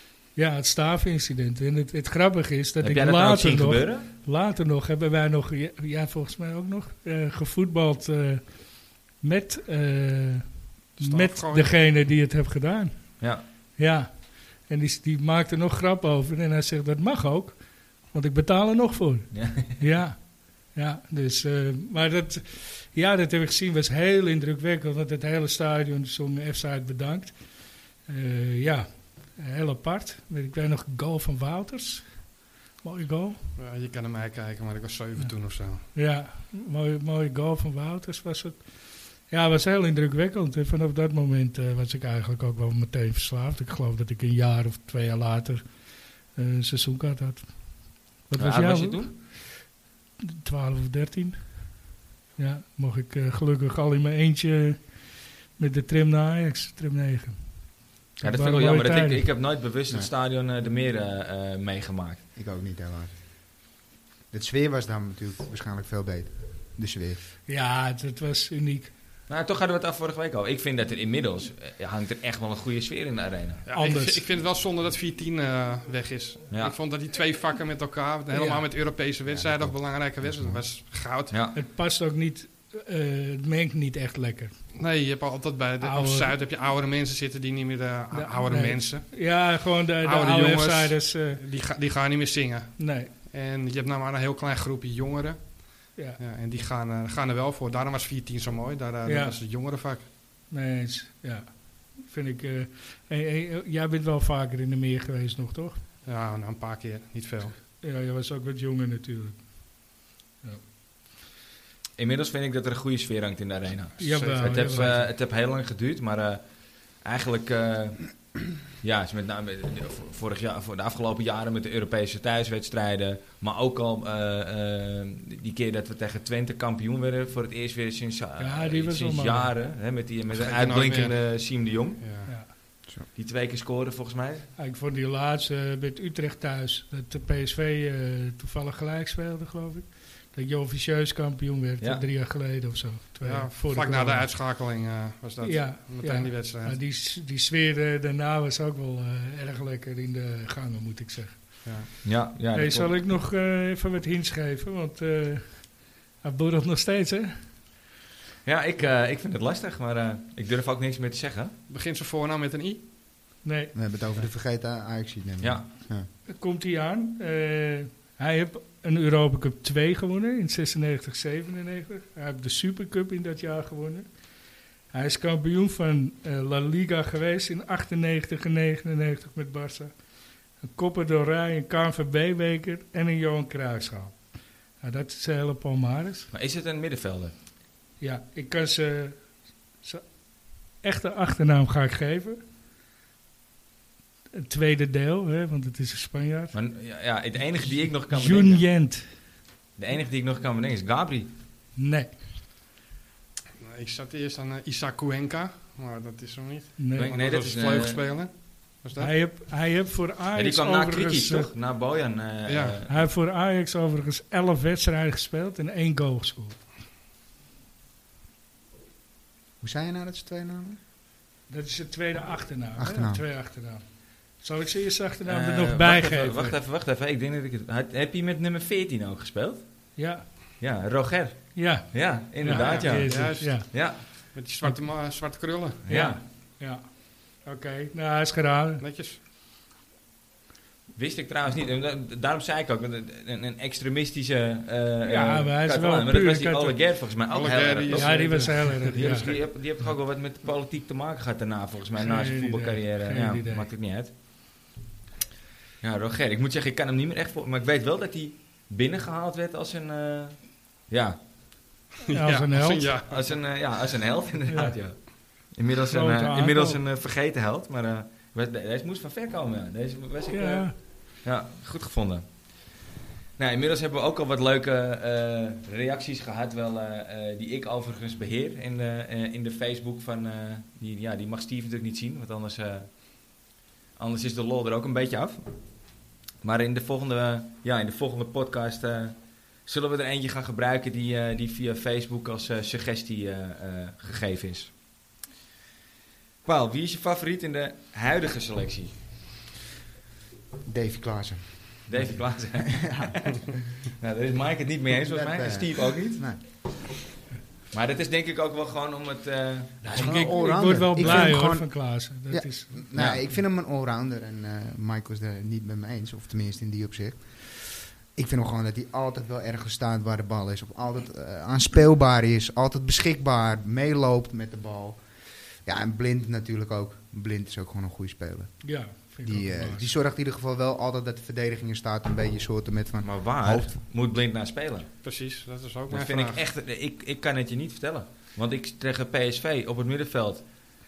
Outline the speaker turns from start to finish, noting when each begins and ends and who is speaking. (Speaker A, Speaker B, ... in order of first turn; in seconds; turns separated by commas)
Speaker A: 0.3-33.5, Speaker B: 2.8-4.1, Speaker C: 11.0-11.7, Speaker B: 19.3-19.7, Speaker C: 33.6-35.9, Speaker A: 35.2-49.6, Speaker B: 48.4-49.1, Speaker A: 50.4-59.2, Speaker B: 58.2-62.2, Speaker D: 62.4-63.2, Speaker D: 64.3-67.2, Speaker A: 67.5-68.9, Speaker B: 69.3-73.6, Speaker C: 73.7-81.3, Speaker A: 73.8-74.2, Speaker A: 78.3-78.7, Speaker D: 79.2-80.6, Speaker B: 81.3-81.6, Speaker A: 81.5-84.6, Speaker C: 84.7-100.0, Speaker A: 85.8-86.3, Speaker A: 88.1-91.4, Speaker A: 92.8-93.1, Speaker A: 99.0-99.4, Speaker A: 100.5-105.8, Speaker C: 106.0-107.6, Speaker A: 107.8-109.5, Speaker B: 112.0-118.1, Speaker A: 114.0-115.0, Speaker C: 114.0-114.8, Speaker B: 118.7-132.0, Speaker A: 128.4-129.6, Speaker C: 130.3-132.3, Speaker B: 133.1-134.5, Speaker A: 134.6-144.3, Speaker B: 141.8-142.1, Speaker C: 143.2-146.8, Speaker A: 145.4-157.6, Speaker C: 151.6-151.9, Speaker B: 152.0-152.9, Speaker B: 158.4-161.5, Speaker C: 161.7-162.8, Speaker A: 163.4-163.7, Speaker D: 163.7-166.1, Speaker B: 165.4-165.7, Speaker A: 166.3-174.2, Speaker A: 174.9-179.9, Speaker A: 180.6-184.2, Speaker A: 184.8-186.3, Speaker B: 186.3-187.3, Speaker A: 188.0-192.4, Speaker A: 194.3-196.5, Speaker B: 196.5-198.6, Speaker A: 198.1-199.2, Speaker B: 199.8-201.3, Speaker A: 201.8-202.2, Speaker C: 203.6-209.1, Speaker A: 206.8-207.1, Speaker B: 206.9-208.0, Speaker A: 209.0-211.5, Speaker B: 210.3-212.9, Speaker C: 212.5-212.8, Speaker A: 212.9-216.6, Speaker D: 219.6-220.8, Speaker A: 221.5-226.6, Speaker D: 222.8-223.2, Speaker B: 225.2-229.6, Speaker A: 229.9-230.3, Speaker B: 230.6-234.0, Speaker A: 231.5-234.8, Speaker C: 232.4-235.8, Speaker B: 235.8-236.2, Speaker A: 235.9-238.8, Speaker C: 238.8-239.2, Speaker B: 240.9-254.1, Speaker A: 245.0-246.8, Speaker C: 247.3-249.4, Speaker A: 247.9-249.3, Speaker A: 252.0-253.7, Speaker B: 255.8-261.2, Speaker C: 262.1-263.4, Speaker A: 262.1-262.9, Speaker B: 263.1-272.5, Speaker A: 264.5-264.7, Speaker A: 265.9-266.8, Speaker A: 270.3-270.8, Speaker B: 273.4-283.1, Speaker B: 283.9-285.5, Speaker B: 286.4-294.7, Speaker B: 296.4-298.9, Speaker D: 300.6-303.1, Speaker B: 301.9-306.2, Speaker D: 305.0-306.4, Speaker B: 307.7-310.1, Speaker D: 309.8-325.0, Speaker A: 309.9-312.9, Speaker B: 312.9-313.2, Speaker D: 325.6-328.6, Speaker A: 328.6-329.9, Speaker D: 329.2-333.8, Speaker B: 333.0-334.9, Speaker C: 335.0-336.4, Speaker B: 335.9-340.4